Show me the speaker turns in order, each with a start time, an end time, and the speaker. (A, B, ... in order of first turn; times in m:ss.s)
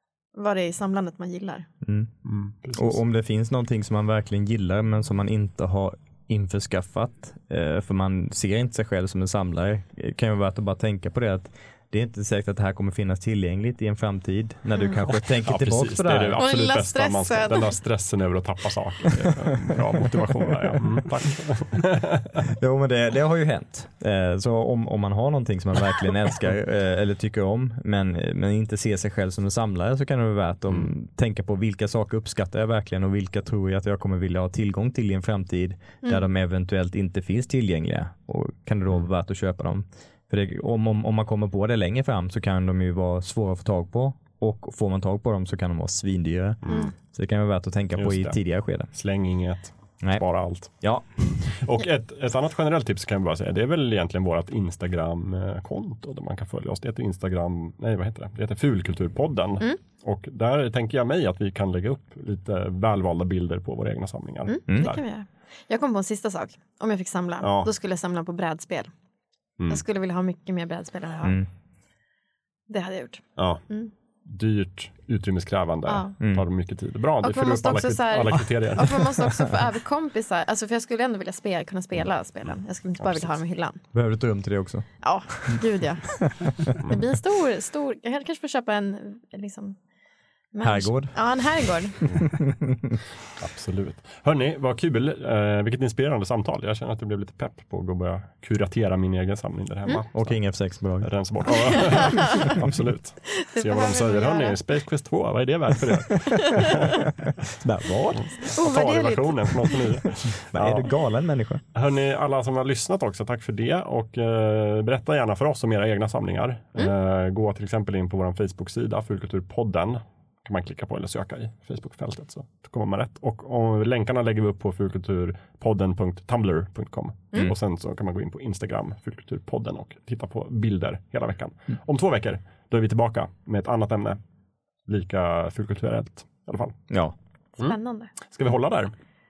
0:00.3-0:01.7 A
0:01.8-0:02.1 B
0:02.2-0:03.0 C
0:02.7-0:16.4 B
0:14.8-0:15.0 A
0:15.1-0:22.3 C
0:16.4-0:17.8 A
0:20.6-0:21.0 B
0:22.5-0:48.9 B
0:46.6-0:46.9 C
0:46.7-0:46.9 A
0:48.0-1:05.0 C
0:50.0-0:51.3 B
1:04.5-1:08.9 A
1:04.7-1:04.9 B
1:07.4-1:07.7 C
1:09.7-1:11.4 A
1:12.7-1:13.9 A
1:13.4-1:13.6 C
1:14.3-1:19.1 C
1:15.9-1:16.1 A
1:17.2-1:23.8 A
1:23.0-1:23.3 C
1:23.9-1:25.6 B
1:25.0-1:29.8 A
1:30.5-1:32.0 A
1:30.6-1:33.0 B
1:33.4-1:47.0 C
1:40.1-1:41.1 B
1:41.7-1:42.6 A
1:43.3-1:44.6 A
1:47.6-1:48.4 B
1:48.2-1:50.9 C
1:48.5-1:49.8 A
1:50.5-1:51.6 B
1:51.7-2:14.2 C
2:14.8-2:16.8 C
2:16.9-2:17.2 B
2:17.6-2:18.1 A
2:17.6-2:18.9 C